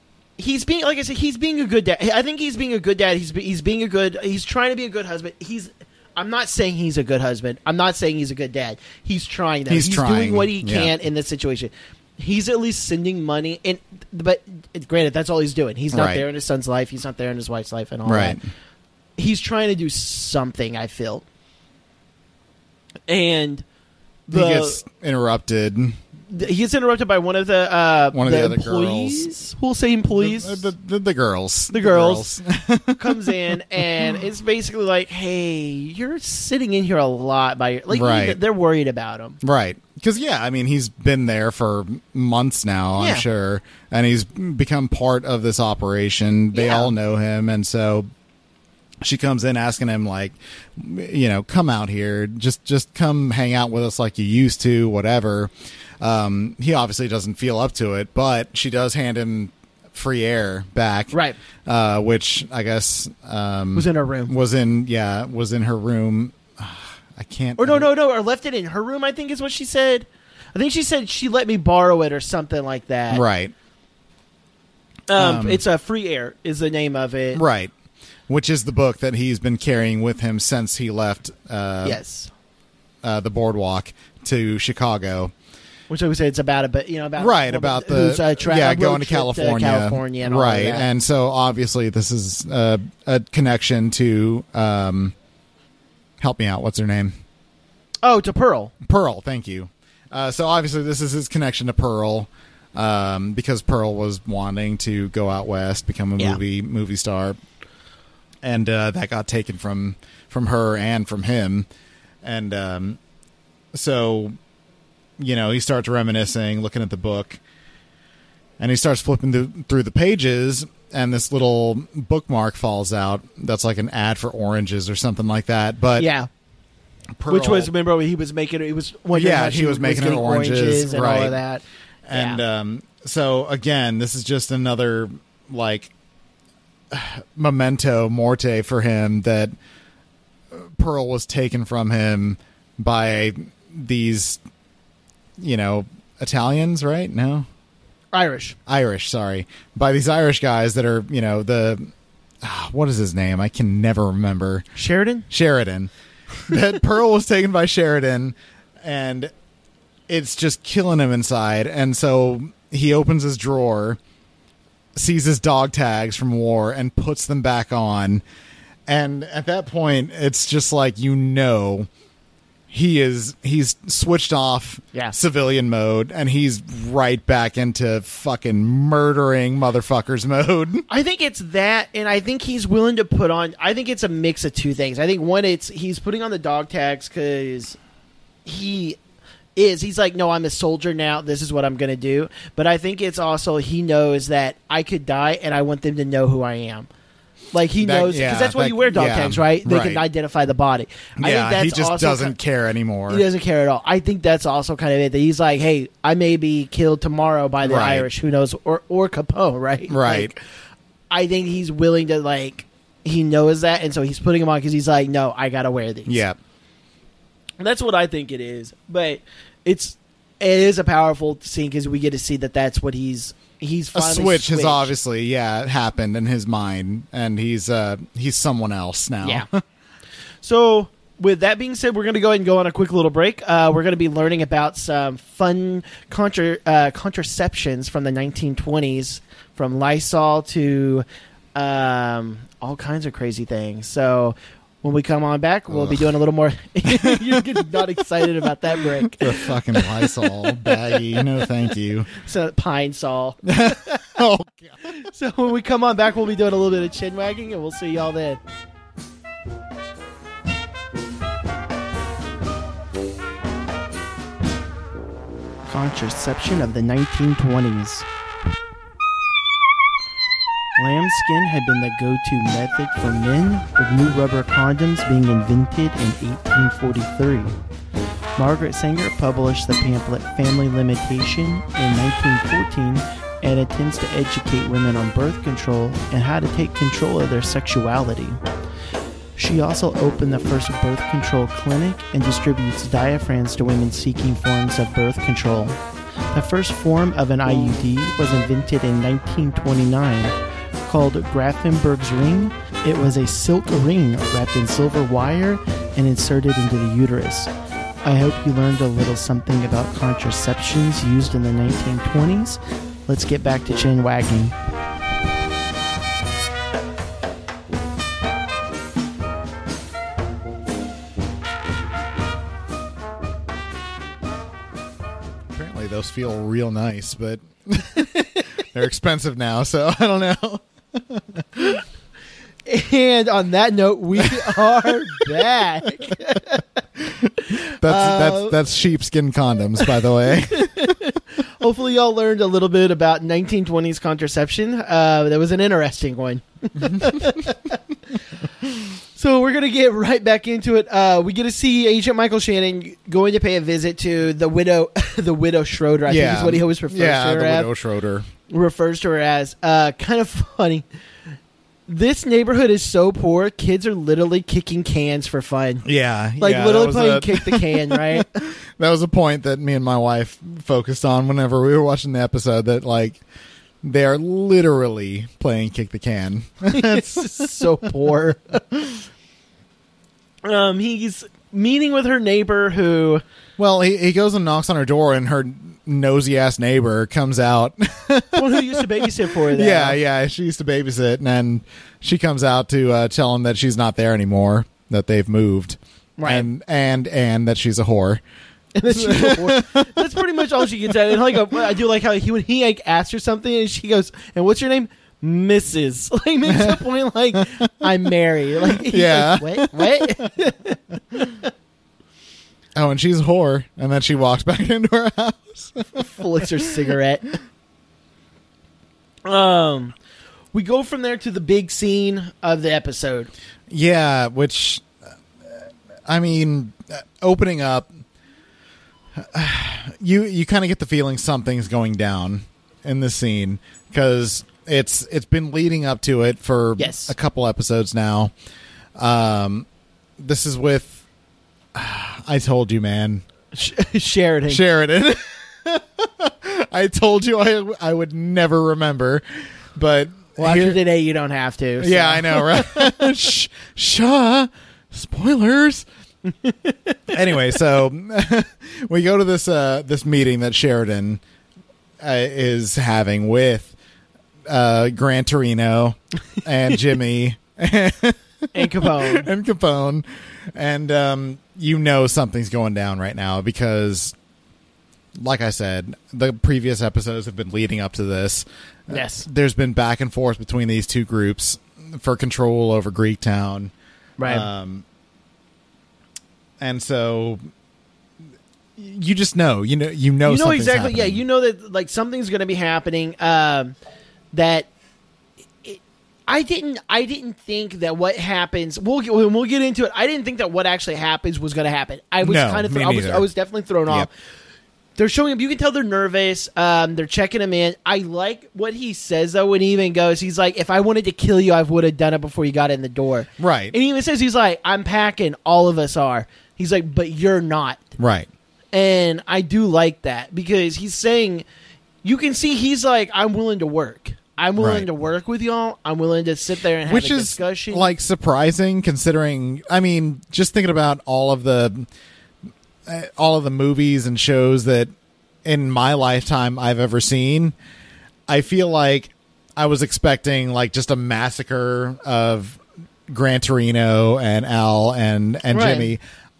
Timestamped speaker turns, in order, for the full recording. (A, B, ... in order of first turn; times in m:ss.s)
0:00.4-0:18.4 A
0:09.7-0:10.9 B
0:15.9-0:16.2 B
0:18.0-0:18.4 B
0:19.2-0:21.2 A
0:23.1-0:23.6 A
0:24.3-0:24.8 A
0:24.3-0:26.0 B
0:26.3-0:30.7 A
0:28.1-0:29.3 B
0:30.2-0:33.5 B
0:31.7-0:32.3 A
0:33.0-0:39.4 A
0:37.9-0:38.4 B
0:39.4-0:48.1 B
0:43.0-0:43.2 A
0:46.5-0:46.9 A
0:49.0-1:01.1 B
1:01.1-1:01.4 A
1:01.6-1:07.9 B
1:03.7-1:04.3 A
1:07.6-1:13.2 A
1:13.1-1:13.5 B
1:15.1-1:17.4 A
1:15.2-1:15.6 B
1:17.3-1:17.7 B
1:18.3-1:22.0 B
1:21.8-1:22.3 A
1:23.0-1:25.3 B
1:25.9-1:30.9 A
1:27.2-1:35.1 B
1:36.2-1:37.2 B
1:38.0-1:38.7 A
1:38.8-1:47.4 B
1:48.4-1:51.6 B
1:52.2-1:53.0 B
1:53.7-1:54.4 B
1:55.2-1:57.4 B
1:58.6-2:06.1 B
2:06.0-2:06.3 A
2:07.2-2:07.7 B
2:07.3-2:12.4 A
2:09.1-2:11.4 B
2:12.1-2:15.9 B
2:16.9-2:19.5 B
2:20.5-2:24.4 B
2:25.4-2:27.5 B
2:28.1-2:28.6 A
2:28.7-2:31.9 B
2:32.4-2:34.7 B
2:34.7-2:35.3 A
2:35.3-2:35.9 B
2:36.4-2:39.3 B
2:40.1-2:44.0 B
2:44.9-2:48.2 B
2:48.9-2:51.9 B
2:52.7-3:00.8 B
3:00.9-3:07.8 A
3:08.4-3:09.0 A
3:09.6-3:16.9 A
3:17.5-3:22.3 A
3:17.8-3:20.0 B
3:21.2-3:23.2 B
3:23.1-3:30.4 A
3:27.6-3:28.1 B
3:29.9-3:30.3 B
3:31.1-3:36.2 A
3:36.1-3:36.4 B
3:37.6-3:44.9 A
3:43.9-3:49.6 B
3:50.4-4:10.7 A
4:05.7-4:06.0 B
4:06.9-4:07.4 B
4:09.2-4:12.1 B
4:12.1-4:14.0 A
4:13.4-4:14.8 B
4:14.9-4:18.4 A
4:25.7-4:28.0 A
4:30.8-4:37.6 A
4:38.4-4:48.4 A
4:49.4-4:55.8 A
4:56.3-5:07.5 A
5:08.0-5:14.5 A
5:25.5-5:31.8 B
5:32.6-5:36.6 A
5:34.2-5:35.2 B
5:37.0-5:37.3 B
5:37.4-5:38.6 A
5:37.8-5:41.0 B
5:40.5-5:47.8 A
5:49.1-5:57.7 A
5:56.1-5:58.3 B
5:58.5-6:00.8 A
6:01.9-6:05.8 A
6:05.8-6:13.2 B
6:06.4-6:08.3 A
6:13.8-6:17.5 B
6:16.7-6:18.6 A
6:20.4-6:23.2 A
6:23.6-6:38.2 B
6:28.3-6:30.0 A
6:36.2-6:36.5 A
6:38.7-6:51.4 A
6:38.9-6:41.2 B
6:46.5-6:46.8 B
6:47.3-6:47.6 B
6:48.7-6:50.3 B
6:52.7-6:56.0 B
6:55.9-6:57.3 A
6:59.2-6:59.9 A
7:00.5-7:03.3 A
7:03.7-7:04.8 B
7:06.0-7:08.0 B
7:09.2-7:18.3 B
7:16.8-7:17.1 A
7:19.0-7:19.6 B
7:20.2-7:21.0 B
7:21.7-7:23.2 B
7:23.5-7:24.6 A
7:24.5-7:30.8 B
7:30.4-7:33.1 A
7:31.8-7:35.8 B
7:36.4-7:37.0 A
7:37.1-7:41.2 B
7:42.0-7:43.7 B
7:44.5-7:54.1 B
7:48.5-7:49.3 A
7:55.2-8:03.7 B
7:58.9-7:59.2 A
8:04.2-8:04.5 A
8:04.2-8:04.8 B
8:06.6-8:07.4 B
8:08.8-8:11.2 B
8:10.2-8:13.7 A
8:14.3-8:14.7 A
8:15.6-8:24.1 A
8:22.2-8:23.3 B
8:25.0-8:37.8 A
8:33.4-8:33.7 B
8:38.0-8:38.3 B
8:38.7-8:41.4 A
8:42.0-8:47.9 A
8:44.6-8:44.9 B
8:46.8-8:51.9 B
8:52.8-8:54.9 B
8:55.4-8:57.5 B
8:58.3-9:06.0 B
9:05.5-9:05.9 A